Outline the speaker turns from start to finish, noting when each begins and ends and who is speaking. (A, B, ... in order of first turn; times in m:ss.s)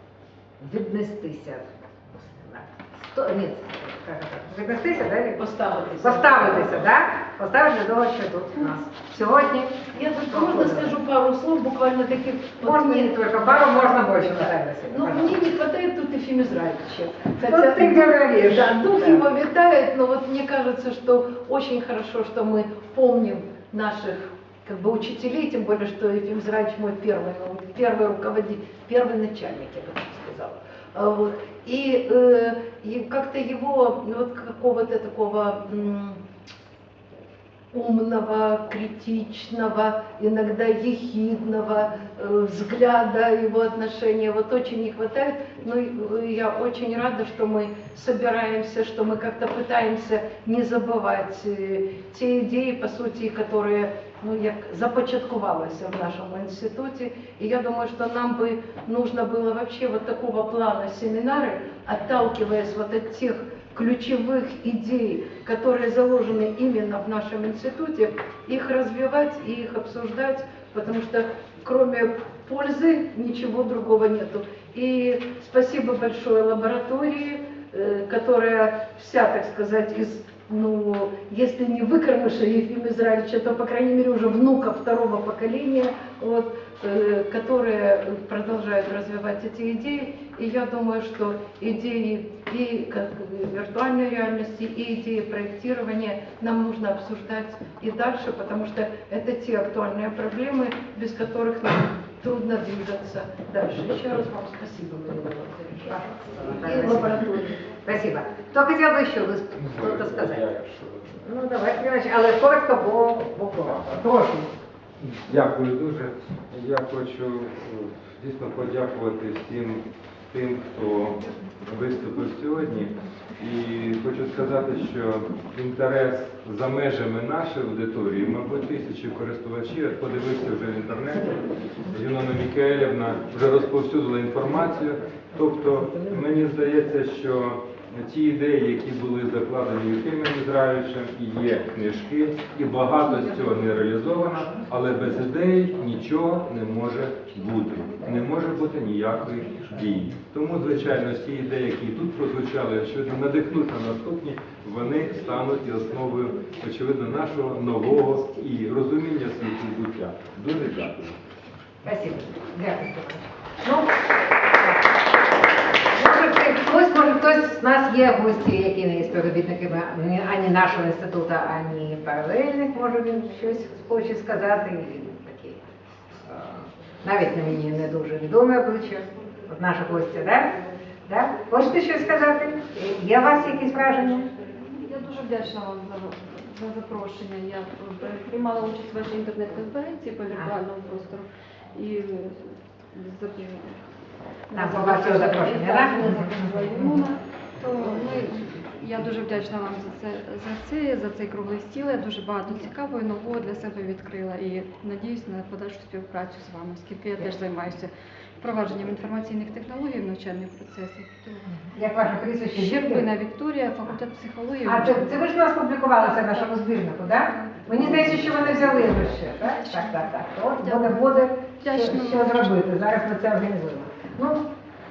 0:00.6-0:05.4 A
0:05.4-0:06.8 B
0:06.0-0:10.9 A
0:09.9-0:36.2 B
0:12.6-0:15.4 A
0:17.4-0:19.2 A
0:37.7-1:47.6 B
1:45.9-1:50.5 A
1:49.6-1:51.2 C
1:51.2-1:54.5 A
1:55.0-2:41.2 C
2:41.8-2:43.9 A
2:44.4-2:45.0 A
2:45.8-2:55.6 A
2:56.2-3:04.3 A
3:04.6-3:13.8 D
3:14.5-3:31.7 D
3:14.5-3:16.9 A
3:31.7-3:33.0 A
3:32.5-3:35.2 D
3:34.6-3:44.4 A
3:36.0-3:42.4 D